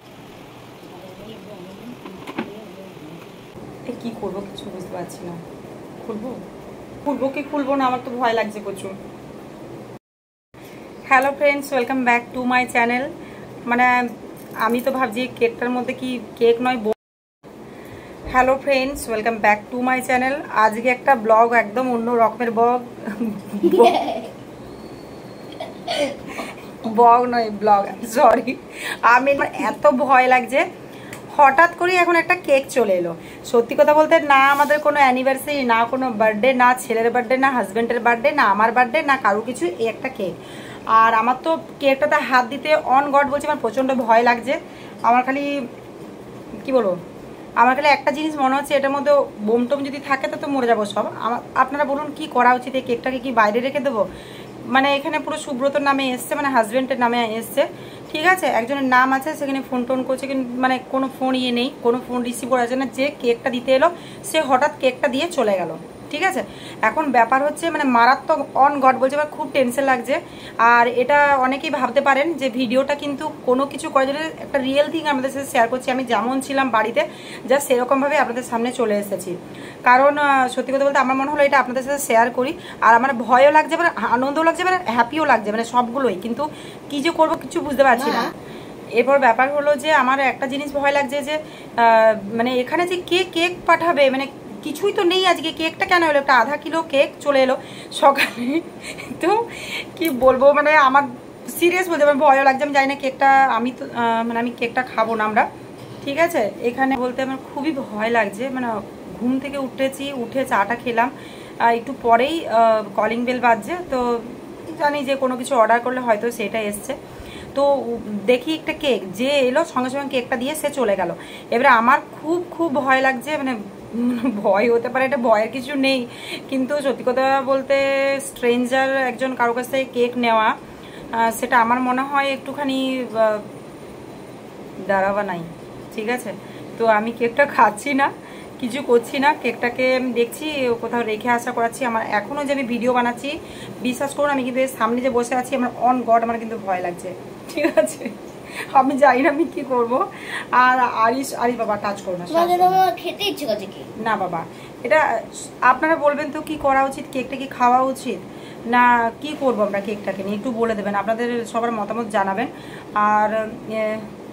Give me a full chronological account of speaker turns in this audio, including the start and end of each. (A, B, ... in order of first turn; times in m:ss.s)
0:00.8-0:03.3 A
0:03.8-0:05.4 B
0:06.0-0:06.4 B
0:07.0-0:09.0 B
0:11.1-0:13.1 B
0:13.7-0:14.1 B
0:14.6-0:17.0 B
0:18.2-0:24.1 B
0:23.6-0:24.3 A
0:25.8-0:26.4 A
0:26.4-0:30.6 B
0:31.3-0:40.3 B
0:40.9-0:45.6 B
0:46.6-0:47.0 B
0:47.6-0:54.1 B
0:54.7-1:28.3 B
1:28.0-1:28.3 A
1:29.0-1:45.5 B
1:46.0-1:57.0 B
1:57.5-2:10.5 B
2:11.1-2:13.5 B
2:14.8-2:32.8 B
2:32.3-2:33.9 A
2:34.0-2:44.1 B